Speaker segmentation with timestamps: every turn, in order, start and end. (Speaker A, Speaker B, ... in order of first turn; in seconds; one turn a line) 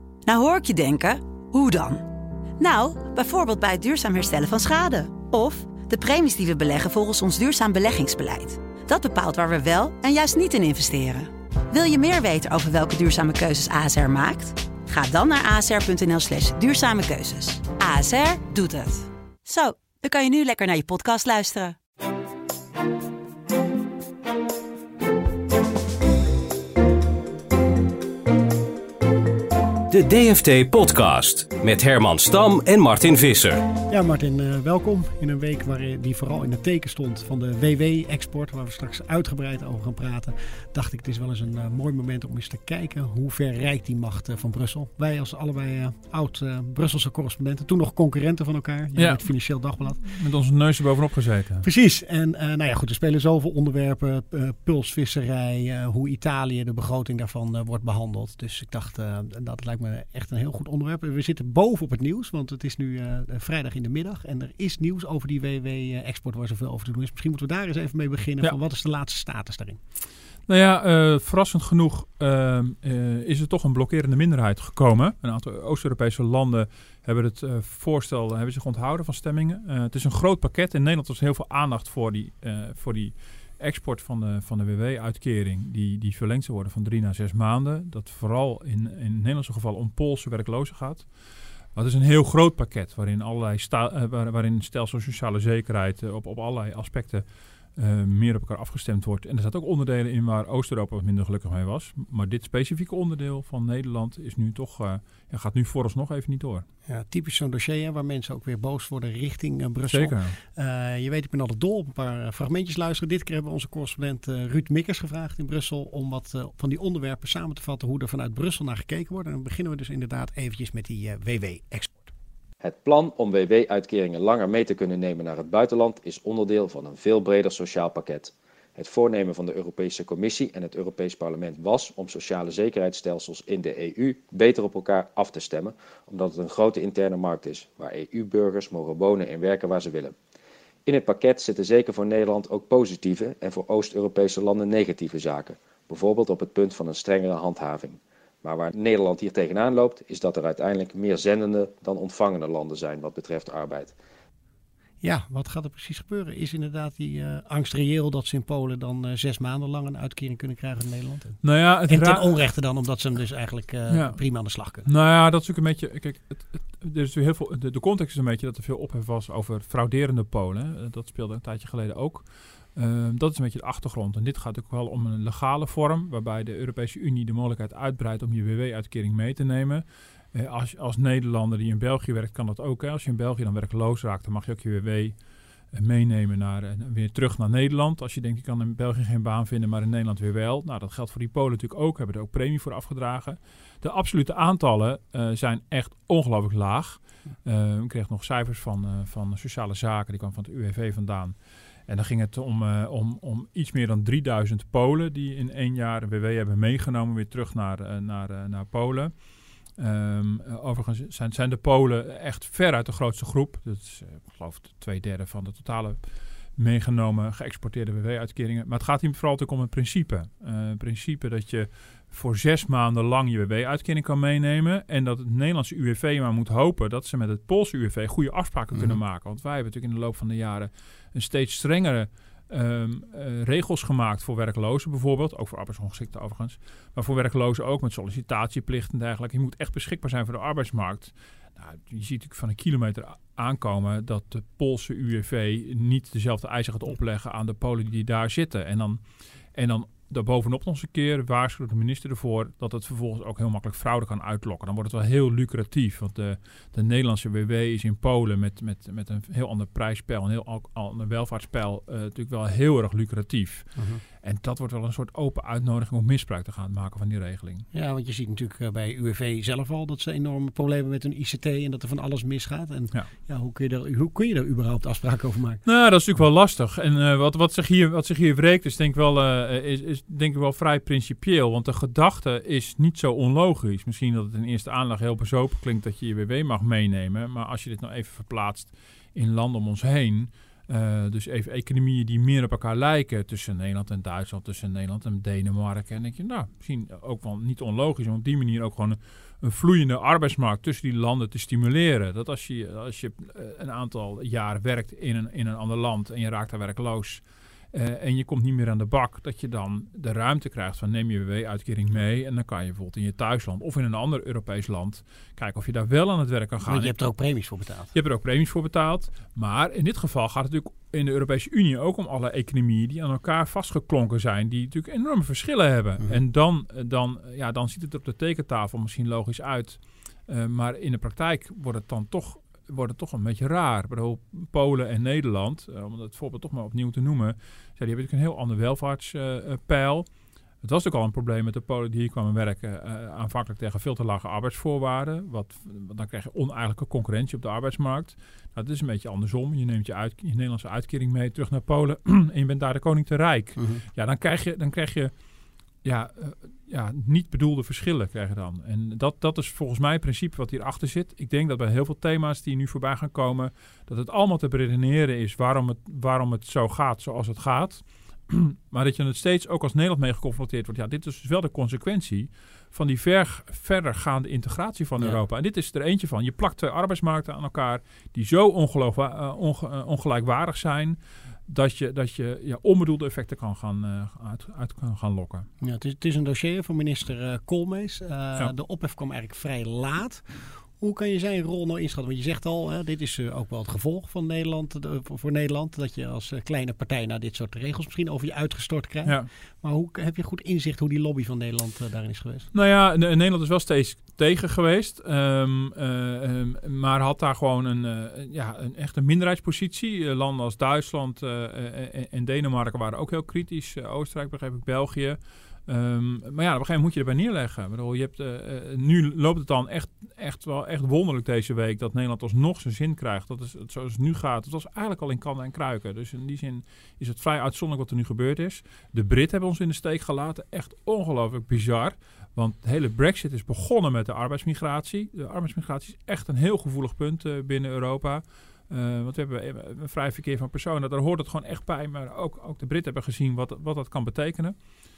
Speaker A: 0.2-2.0
Speaker A: 2.6-21.8
Speaker B: 29.9-33.7
Speaker C: 33.9-50.0
Speaker D: 49.0-49.3
Speaker D: 50.0-51.7
Speaker C: 51.6-69.8
Speaker D: 70.5-91.1
Speaker D: 91.7-106.6
Speaker C: 106.9-122.1
Speaker D: 109.9-110.4
Speaker E: 122.6-140.1
Speaker E: 140.8-153.9
Speaker C: 155.0-164.9
Speaker D: 161.4-162.3
Speaker D: 163.9-164.2
Speaker D: 164.8-185.2
Speaker D: 185.7-201.3
Speaker D: 201.9-209.2
Speaker D: 209.8-249.0
Speaker D: 249.5-267.6
Speaker C: 263.8-264.0
Speaker C: 267.7-275.6
Speaker D: 275.6-316.9
Speaker C: 316.6-317.9
Speaker D: 317.9-340.1
Speaker D: 340.6-355.1
Speaker C: 353.6-353.8
Speaker D: 355.8-385.5
Speaker C: 385.6-402.5
Speaker D: 402.5-444.6